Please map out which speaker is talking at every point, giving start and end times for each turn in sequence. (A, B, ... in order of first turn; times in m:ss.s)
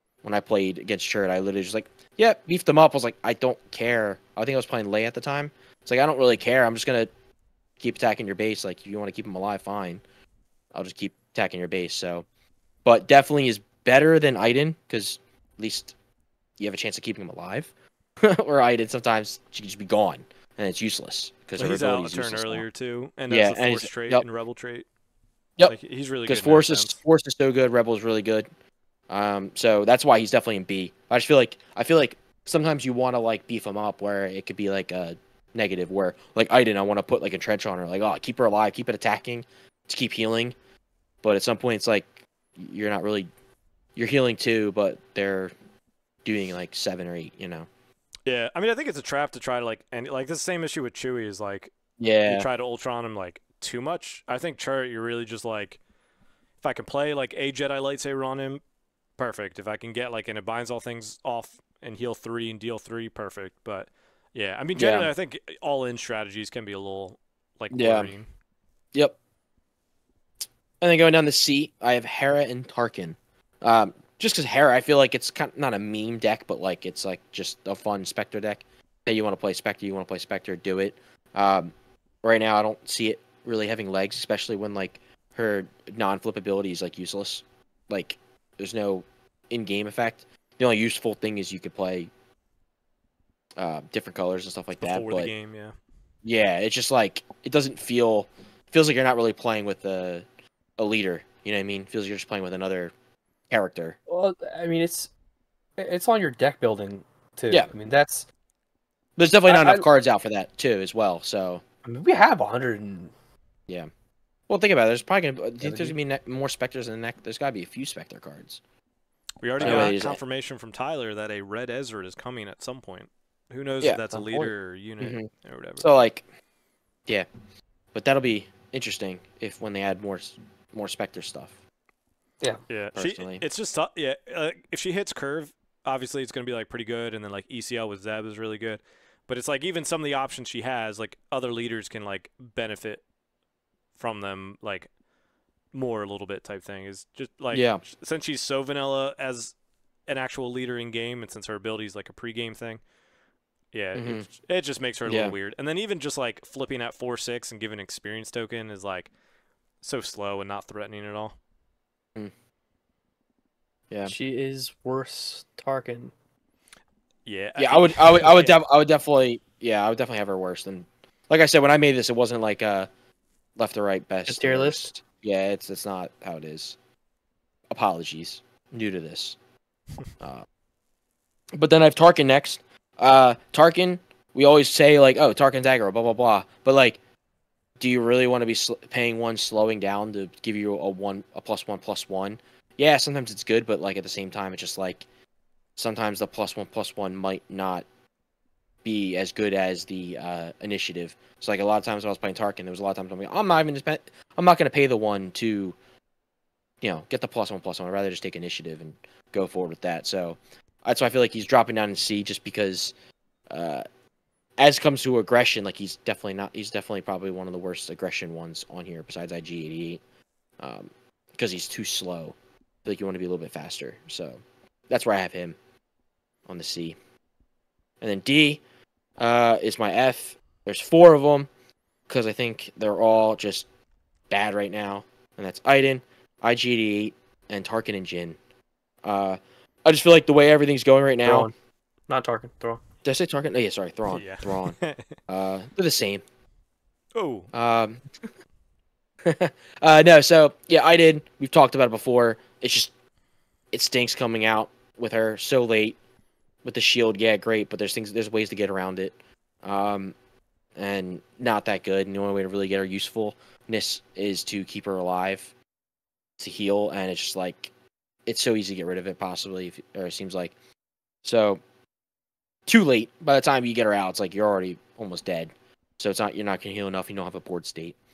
0:00.2-0:07.1 A
0:07.8-0:10.0 A
0:10.7-0:12.2 A
0:12.8-0:15.9 A
0:16.6-0:22.6 A
0:21.6-0:24.9 B
0:23.3-0:24.2 A
0:25.7-0:27.0 B
0:26.3-0:28.5 A
0:29.1-0:40.6 A
0:41.2-0:43.3 A
0:44.0-0:45.5 A
0:46.2-0:47.7 A
0:48.3-0:51.7 B
0:52.0-0:52.5 A
0:52.3-0:55.8 B
0:56.6-0:58.6 B
0:59.2-1:08.3 B
1:04.8-1:05.1 A
1:07.7-1:08.1 A
1:10.8-1:32.1 A
1:33.6-1:35.3 A
1:34.8-1:35.7 B
1:36.2-1:40.3 A
1:40.8-1:42.9 A
1:43.5-1:44.0 A
1:44.1-1:45.1 C
1:45.8-1:48.2 C
1:49.2-1:51.6 A
1:49.5-1:49.8 C
1:51.8-1:53.1 C
1:54.5-1:58.6 A
1:55.6-1:56.0 C
1:59.4-2:05.9 B
1:59.6-2:00.2 A
1:59.6-2:00.0 C
2:04.1-2:04.5 C
2:05.0-2:05.3 A
2:05.8-2:06.2 A
2:07.9-2:11.6 A
2:12.7-2:23.0 B
2:13.0-2:13.4 A
2:24.0-2:24.9 B
2:25.7-2:29.5 B
2:27.5-2:27.8 A
2:30.1-2:32.8 B
2:33.7-2:39.1 B
2:34.0-2:34.3 A
2:35.1-2:35.4 A
2:39.8-2:41.4 B
2:44.0-2:46.1 C
2:47.3-2:48.6 B
2:47.6-2:52.9 A
2:53.6-2:56.8 A
2:54.3-2:55.0 C
2:57.7-2:59.4 A
3:00.2-3:00.5 A
3:01.5-3:07.0 A
3:07.8-3:15.1 A
3:15.8-3:17.8 A
3:18.8-3:25.8 A
3:26.8-3:32.9 A
3:33.5-3:33.8 A
3:34.6-3:40.0 A
3:40.6-3:45.6 A
3:46.5-3:47.0 A
3:48.0-3:48.6 A
3:49.2-3:51.5 A
3:52.1-3:53.7 A
3:54.3-3:58.4 A
3:59.0-4:01.5 A
4:01.2-4:01.5 C
4:02.1-4:02.8 C
4:03.0-4:04.8 A
4:04.1-4:05.2 B
4:05.3-4:06.2 A
4:07.2-4:07.5 B
4:07.5-4:08.0 A
4:09.2-4:12.9 A
4:13.7-4:16.0 A
4:16.6-4:20.1 A
4:20.8-4:25.5 A
4:26.4-4:27.7 A
4:28.3-4:30.5 A
4:31.2-4:31.6 A
4:32.7-4:38.0 A